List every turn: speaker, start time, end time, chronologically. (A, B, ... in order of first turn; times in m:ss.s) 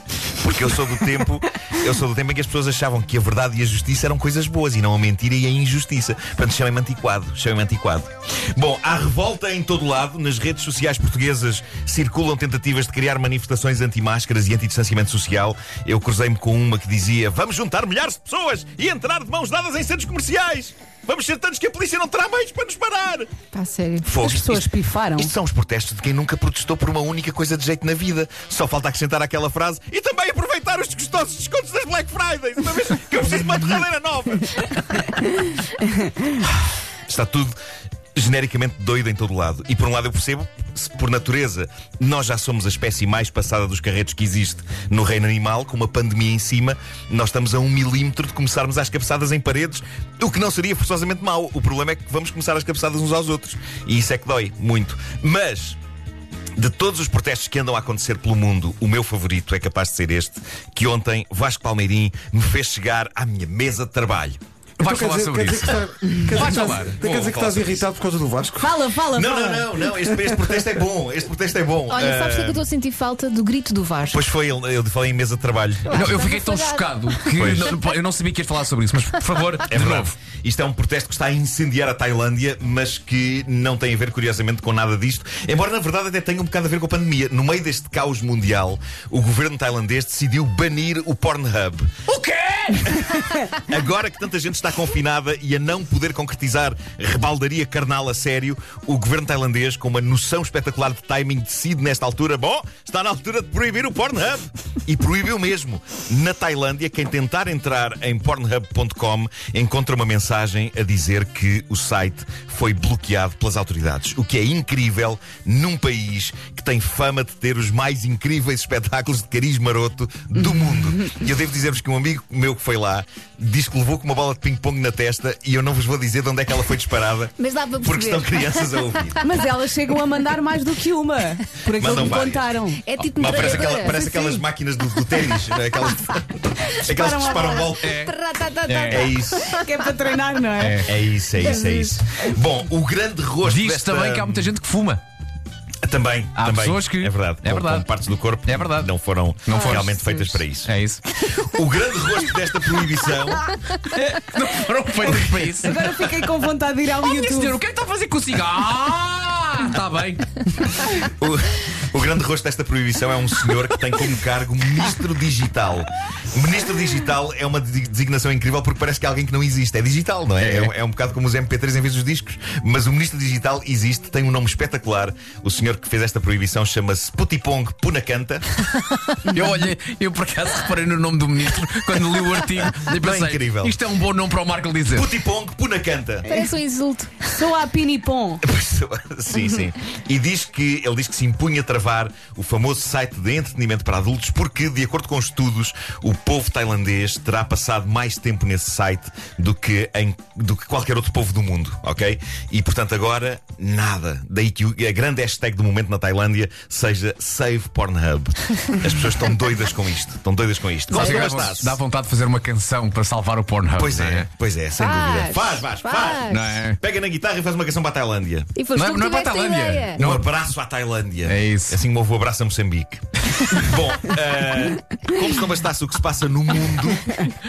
0:00.4-0:23.3 A
0:23.5-0:24.1 B
0:24.0-0:35.1 A
0:24.2-0:25.3 C
0:37.1-0:37.5 A
0:38.1-0:55.8 A
0:56.6-1:04.4 A
1:04.8-1:05.8 D
1:04.8-1:08.7 E
1:06.4-1:07.8 D
1:08.6-1:09.7 C
1:09.1-1:12.6 A
1:11.9-1:14.2 B
1:14.1-1:16.2 A
1:15.9-1:17.7 B
1:15.9-1:20.1 D
1:17.4-1:17.7 A
1:19.7-1:32.0 A
1:32.1-1:33.2 D
1:33.6-2:09.2 A
2:07.4-2:08.7 B
2:09.2-2:12.8 C
2:11.7-2:12.5 A
2:12.8-2:14.0 B
2:13.0-2:13.8 D
2:13.2-2:18.0 A
2:13.7-2:14.4 C
2:16.8-2:17.8 C
2:17.8-2:19.7 B
2:17.8-2:19.1 D
2:18.9-2:19.6 A
2:19.5-2:20.9 C
2:20.6-2:20.9 D
2:20.8-2:24.5 A
2:21.4-2:21.9 B
2:23.4-2:25.0 D
2:25.8-2:30.7 A
2:26.3-2:27.9 D
2:28.4-2:28.9 D
2:29.4-2:31.0 D
2:29.5-2:30.2 B
2:31.3-2:33.5 A
2:34.0-2:36.1 D
2:35.0-2:37.6 C
2:37.0-2:40.8 D
2:40.8-2:58.4 A
2:50.4-2:50.7 D
2:59.3-3:05.0 D
3:03.0-3:03.8 A
3:04.9-3:06.4 A
3:06.3-3:07.4 B
3:07.3-3:08.4 C
3:08.4-3:31.8 A
3:30.9-3:34.3 D
3:30.9-3:31.2 B
3:33.8-3:38.5 A
3:34.8-3:36.6 B
3:36.3-3:36.8 D
3:38.6-3:40.0 B
3:38.7-3:40.3 D
3:40.0-3:47.2 A
3:41.2-3:41.8 D